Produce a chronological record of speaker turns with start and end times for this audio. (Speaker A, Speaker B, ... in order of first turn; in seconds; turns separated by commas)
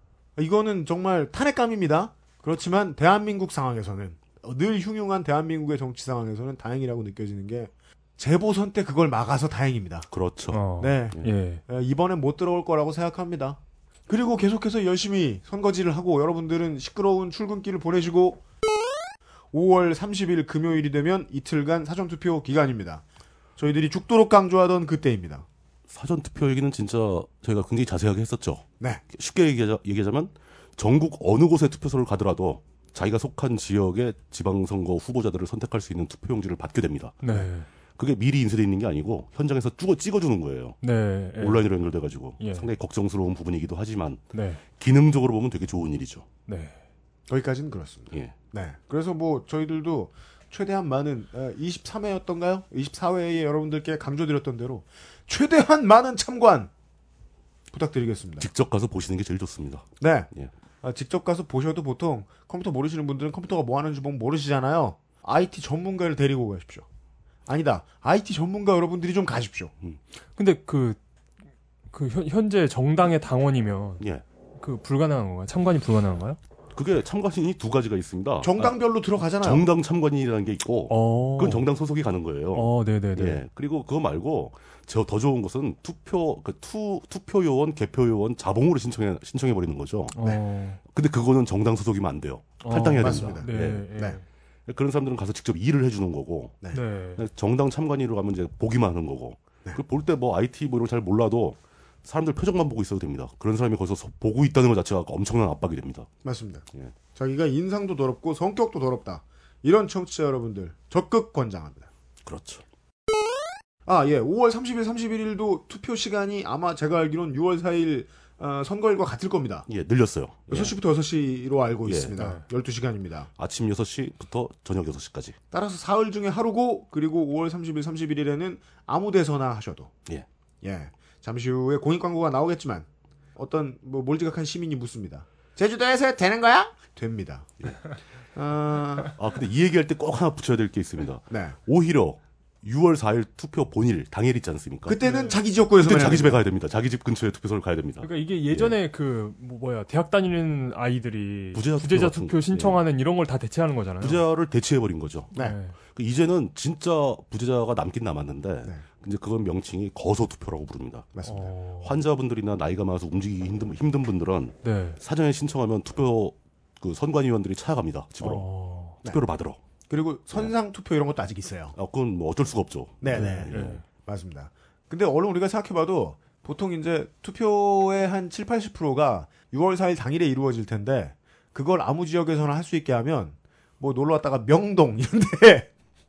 Speaker A: 0.3-10.1, Speaker B: 10.1-11.3, Speaker C: 10.5-11.6, Speaker A: 10.8-18.4, Speaker A: 19.5-23.0, Speaker A: 23.6-25.4, Speaker B: 25.9-37.2, Speaker C: 37.2-37.7, Speaker B: 38.0-40.8, Speaker C: 40.8-41.7, Speaker B: 41.4-44.2, Speaker C: 42.4-42.7, Speaker C: 44.3-44.6, Speaker B: 44.8-46.2, Speaker C: 46.5-46.8, Speaker A: 47.3-56.7, Speaker A: 57.7-58.5, Speaker B: 58.4-60.5, Speaker A: 60.0-60.3, Speaker A: 60.8-66.8, Speaker A: 67.5-69.7, Speaker C: 70.3-71.0, Speaker C: 71.9-74.0, Speaker C: 74.6-76.4, Speaker B: 76.7-78.7, Speaker A: 78.4-79.6, Speaker B: 79.4-90.1, Speaker C: 80.9-81.6, Speaker C: 82.5-83.4, Speaker C: 90.1-90.8, Speaker B: 90.9-93.9, Speaker C: 92.6-94.2, Speaker A: 92.9-94.2, Speaker B: 94.7-96.6, Speaker C: 96.7-97.2, Speaker B: 97.2-106.1, Speaker A: 106.2-111.9, Speaker B: 112.2-112.6, Speaker A: 113.8-119.7, Speaker B: 119.7-120.7, Speaker A: 120.5-123.3, Speaker B: 121.8-122.1, Speaker C: 122.2-122.4, Speaker B: 123.4-125.3, Speaker A: 125.5-129.9, Speaker A: 130.6-137.5, Speaker A: 138.3-139.1, Speaker B: 139.2-145.0, Speaker A: 141.3-141.6, Speaker A: 144.9-146.4, Speaker C: 145.0-145.4, Speaker B: 145.8-148.7, Speaker C: 148.0-154.2, Speaker B: 151.5-152.8, Speaker B: 154.0-155.3, Speaker C: 155.3-155.8, Speaker B: 155.9-161.2, Speaker A: 161.2-161.5, Speaker C: 161.2-161.9, Speaker B: 161.8-168.5, Speaker C: 164.6-165.0, Speaker C: 168.2-169.0, Speaker B: 169.0-169.6, Speaker A: 169.9-171.7, Speaker B: 171.7-173.8, Speaker A: 173.0-173.5, Speaker C: 173.1-173.8, Speaker A: 174.0-185.7